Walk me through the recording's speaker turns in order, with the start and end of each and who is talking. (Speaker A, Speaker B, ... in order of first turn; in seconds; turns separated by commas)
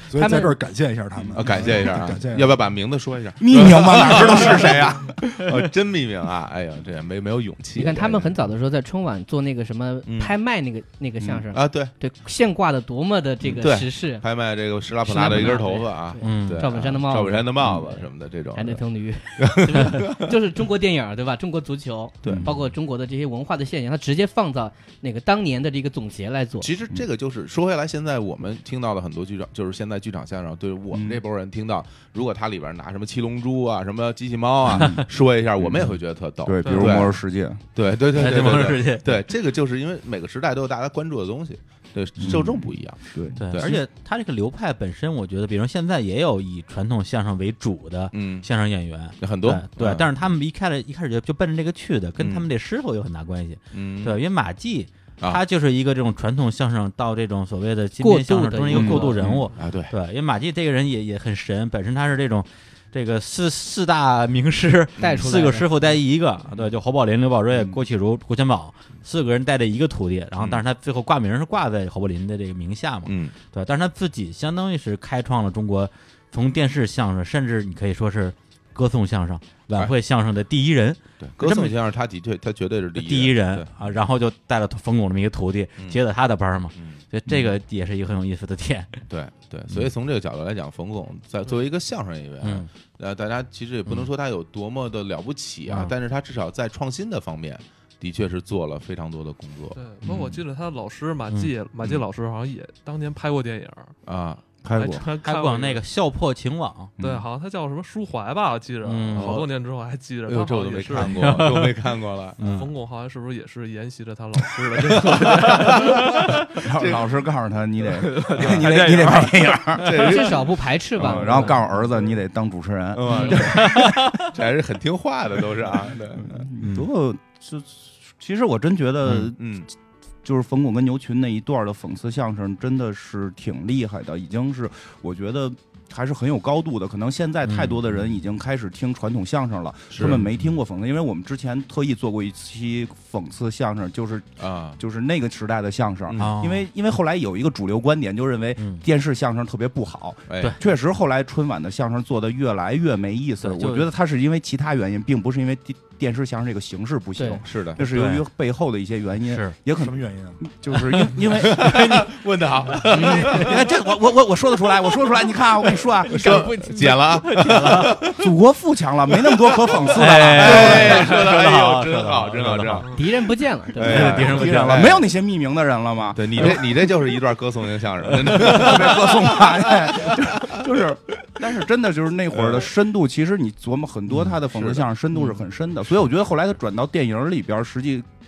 Speaker A: 0.1-2.5, Speaker B: 0.1-0.6, Speaker C: 1.3-8.4, Speaker D: 3.4-5.2, Speaker A: 3.6-4.7, Speaker B: 7.8-14.2, Speaker C: 10.1-10.3, Speaker C: 11.3-11.9, Speaker C: 13.5-18.8, Speaker B: 15.0-26.7, Speaker E: 16.2-16.7, Speaker C: 19.4-20.3, Speaker C: 22.2-22.6, Speaker D: 22.3-22.5, Speaker C: 26.6-37.2, Speaker D: 30.9-31.2, Speaker D: 34.7-35.0, Speaker D: 35.6-37.6, Speaker F: 36.6-37.0, Speaker C: 37.8-43.8, Speaker E: 38.1-39.1, Speaker D: 42.2-43.7, Speaker E: 43.4-81.8, Speaker C: 48.1-48.5, Speaker C: 49.2-50.1, Speaker C: 52.2-52.5, Speaker C: 53.7-54.2, Speaker B: 58.0-59.4, Speaker D: 58.7-59.4, Speaker C: 59.6-59.9, Speaker C: 65.0-65.3, Speaker B: 65.0-65.7, Speaker D: 67.5-67.8, Speaker C: 73.1-73.3, Speaker C: 81.2-83.7, Speaker E: 83.0-89.0, Speaker C: 86.8-87.4, Speaker C: 89.1-99.8, Speaker E: 92.4-92.7, Speaker E: 95.7-95.9, Speaker F: 99.7-103.9, Speaker C: 104.1-104.4, Speaker D: 104.6-105.0, Speaker F: 104.8-105.8, Speaker E: 105.0-106.9, Speaker F: 107.0-111.4, Speaker E: 108.8-109.4, Speaker C: 109.2-109.5, Speaker C: 110.3-112.4, Speaker E: 111.0-111.7, Speaker E: 112.4-112.7, Speaker F: 112.4-116.6, Speaker C: 114.9-117.1, Speaker D: 116.5-120.0, Speaker F: 117.9-120.2, Speaker C: 118.3-119.0, Speaker C: 119.8-121.5, Speaker B: 120.0-121.6, Speaker D: 121.0-124.0, Speaker C: 122.9-126.5, Speaker F: 123.1-124.2, Speaker D: 126.2-129.5, Speaker E: 126.6-126.9, Speaker E: 129.1-129.3, Speaker C: 129.4-129.7, Speaker D: 130.2-162.0, Speaker E: 137.5-138.0, Speaker C: 139.9-140.2, Speaker C: 144.4-144.8, Speaker C: 146.1-146.3, Speaker E: 146.2-146.7, Speaker E: 148.6-148.8, Speaker C: 150.3-150.6, Speaker E: 153.4-153.9, Speaker B: 157.2-157.4, Speaker C: 157.4-157.8, Speaker E: 157.8-158.2, Speaker E: 159.3-159.6, Speaker A: 159.8-160.4, Speaker C: 161.3-163.7, Speaker E: 161.6-162.0, Speaker B: 162.9-163.5, Speaker D: 162.9-166.5, Speaker E: 163.0-163.4, Speaker C: 166.1-168.3, Speaker E: 166.1-168.0, Speaker D: 168.2-171.2, Speaker C: 169.3-169.8, Speaker E: 170.0-172.9, Speaker C: 170.4-173.0, Speaker B: 172.9-174.3, Speaker C: 173.8-175.0, Speaker E: 173.8-175.0, Speaker D: 173.9-176.9, Speaker C: 176.2-180.7, Speaker D: 178.1-188.1, Speaker C: 182.3-182.7, Speaker C: 184.5-184.9